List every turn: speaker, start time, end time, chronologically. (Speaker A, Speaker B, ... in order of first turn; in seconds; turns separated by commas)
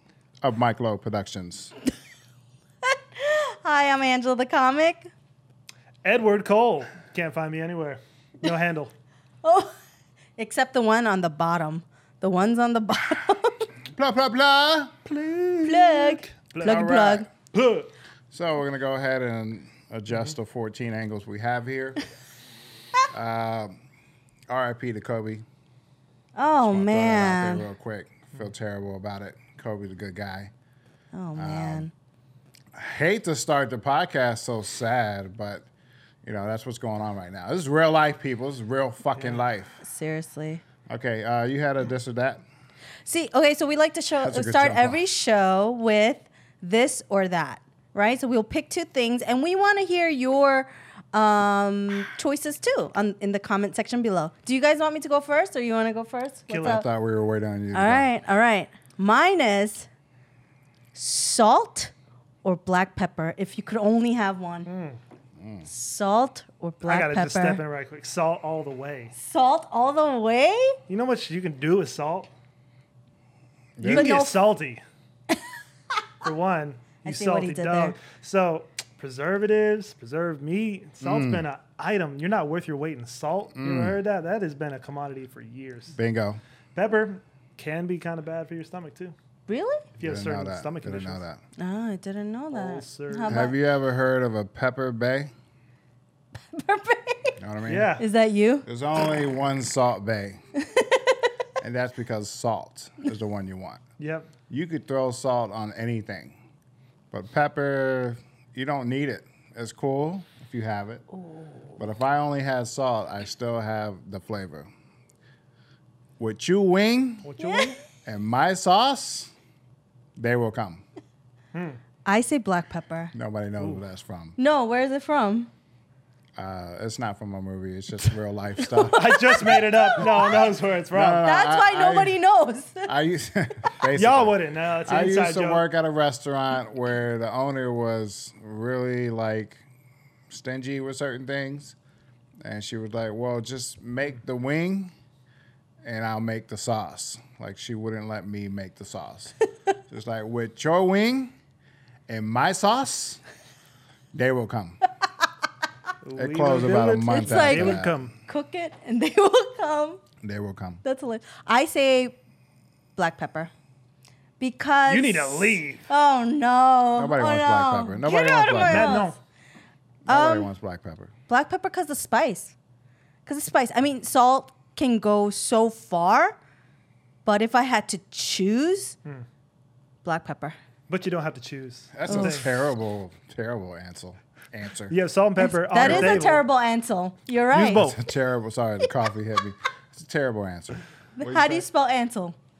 Speaker A: 0.4-1.7, Speaker B: 2.9-5.1, Speaker C: 6.0-8.9, Speaker B: 9.4-9.7, Speaker B: 10.4-13.6, Speaker A: 13.9-17.3, Speaker B: 15.6-17.3, Speaker C: 16.3-16.9, Speaker C: 17.5-17.9, Speaker A: 18.3-22.0, Speaker A: 23.1-23.7, Speaker A: 24.5-25.4, Speaker B: 26.4-27.6, Speaker A: 26.6-30.5, Speaker B: 31.1-31.9, Speaker A: 31.4-31.9, Speaker A: 32.7-35.6, Speaker A: 36.2-39.8, Speaker B: 39.8-40.6, Speaker A: 40.9-42.4, Speaker B: 43.0-56.9, Speaker A: 44.2-45.0, Speaker C: 56.5-56.8, Speaker A: 56.6-58.1, Speaker B: 57.7-59.9, Speaker B: 60.9-61.9, Speaker B: 62.4-64.7, Speaker C: 64.7-65.0, Speaker A: 65.4-65.7, Speaker B: 65.6-67.6, Speaker C: 66.8-69.1, Speaker B: 69.2-70.8, Speaker C: 70.9-72.3, Speaker A: 73.8-74.1, Speaker C: 73.8-74.8, Speaker B: 73.8-74.4, Speaker C: 76.2-86.0, Speaker B: 77.0-78.0, Speaker A: 81.0-81.5, Speaker A: 83.5-84.0, Speaker A: 85.9-86.4, Speaker C: 86.7-89.1, Speaker B: 89.5-89.9, Speaker C: 90.0-91.2, Speaker A: 90.0-91.4, Speaker B: 91.6-93.5, Speaker C: 92.5-93.3, Speaker A: 93.3-95.3, Speaker B: 96.4-97.3, Speaker A: 97.4-98.0, Speaker C: 97.7-98.0, Speaker B: 98.0-98.7, Speaker A: 98.7-100.4, Speaker B: 100.6-101.1, Speaker A: 101.6-103.8, Speaker C: 104.0-104.3, Speaker A: 104.5-106.3, Speaker A: 107.1-111.0, Speaker A: 111.8-114.7, Speaker A: 116.2-117.3, Speaker C: 117.2-117.8, Speaker B: 117.4-117.7, Speaker A: 118.0-119.3, Speaker A: 120.2-120.8, Speaker C: 121.5-121.8, Speaker B: 122.0-123.1, Speaker A: 123.1-124.4, Speaker B: 124.4-125.5, Speaker A: 126.4-129.1, Speaker B: 128.6-130.3, Speaker C: 128.9-131.2, Speaker A: 130.0-130.3, Speaker A: 130.9-132.2, Speaker B: 131.2-132.9, Speaker A: 132.9-139.6, Speaker C: 133.9-135.6, Speaker A: 140.3-141.7, Speaker A: 142.4-144.9, Speaker A: 145.8-149.3, Speaker A: 149.9-151.3, Speaker A: 152.1-153.2, Speaker A: 154.1-154.8, Speaker C: 156.0-158.1, Speaker A: 156.2-157.9, Speaker B: 157.1-160.0, Speaker A: 160.2-160.8, Speaker B: 160.8-162.2, Speaker B: 163.0-163.5, Speaker B: 164.4-169.1, Speaker C: 164.9-165.8, Speaker A: 167.0-169.1, Speaker C: 168.6-169.2, Speaker A: 170.1-171.1, Speaker B: 170.1-170.5, Speaker B: 171.3-172.5, Speaker B: 173.2-176.4, Speaker B: 177.2-178.9, Speaker B: 180.0-180.6, Speaker C: 180.9-182.5, Speaker A: 181.9-184.9, Speaker B: 182.1-182.3, Speaker C: 184.9-186.4, Speaker B: 185.4-187.8, Speaker A: 185.8-186.3, Speaker C: 187.5-188.0, Speaker A: 187.7-191.6, Speaker B: 191.2-192.3